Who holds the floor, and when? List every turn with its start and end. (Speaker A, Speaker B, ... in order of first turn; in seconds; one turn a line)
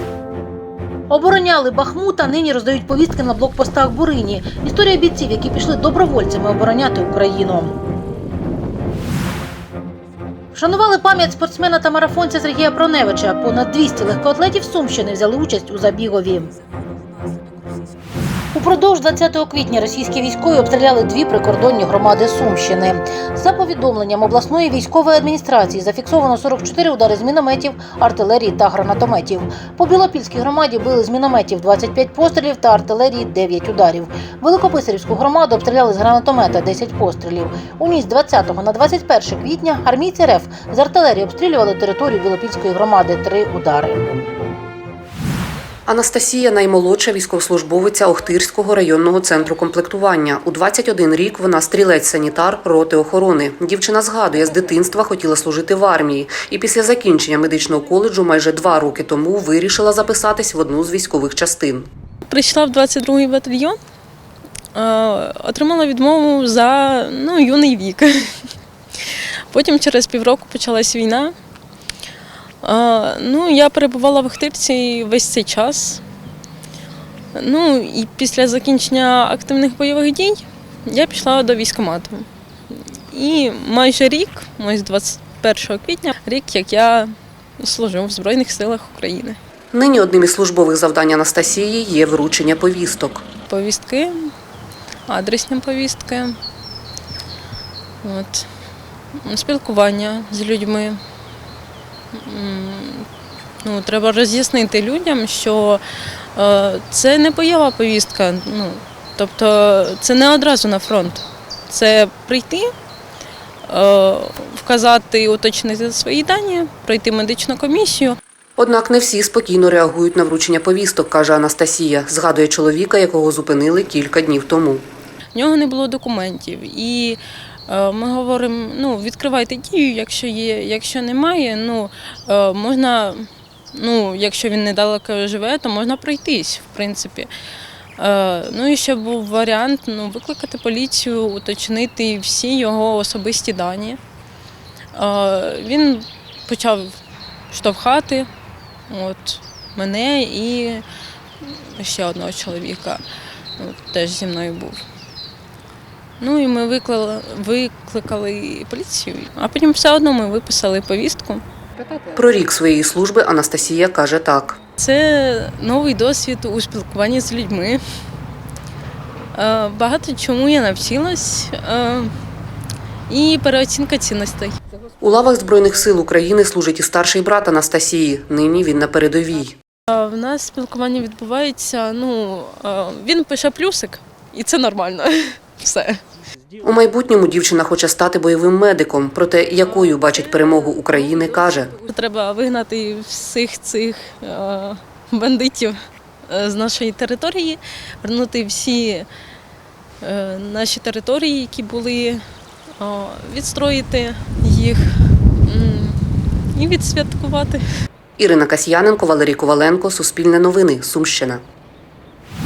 Speaker A: 1.1-7.7
Speaker A: 10.6-16.5
Speaker A: 18.5-44.0
Speaker B: 45.9-61.9
Speaker C: 62.3-63.8
Speaker C: 64.8-68.1
Speaker C: 69.5-71.3
Speaker C: 72.6-76.0
Speaker C: 77.4-82.3
Speaker C: 83.1-89.4
Speaker B: 89.7-93.2
Speaker C: 93.5-94.3
Speaker C: 95.1-96.3
Speaker C: 98.0-98.5
Speaker C: 99.2-101.0
Speaker C: 102.2-103.1
Speaker C: 103.6-105.8
Speaker C: 106.4-112.7
Speaker C: 113.7-118.2
Speaker B: 118.6-124.8
Speaker C: 125.3-137.3
Speaker C: 138.0-144.0
Speaker C: 144.9-146.9
Speaker C: 147.5-148.3
Speaker C: 148.9-150.8
Speaker C: 151.4-153.0
Speaker C: 153.6-154.8
Speaker C: 156.2-161.4
Speaker B: 162.2-164.6
Speaker C: 164.8-167.8
Speaker C: 169.3-172.1
Speaker C: 173.1-174.6
Speaker B: 175.0-179.6
Speaker C: 179.9-186.0
Speaker B: 186.6-191.7
Speaker C: 189.7-195.8
Speaker C: 196.3-199.1
Speaker C: 200.0-202.2
Speaker C: 202.8-204.9
Speaker C: 205.5-206.0
Speaker C: 206.6-207.6
Speaker B: 208.2-211.4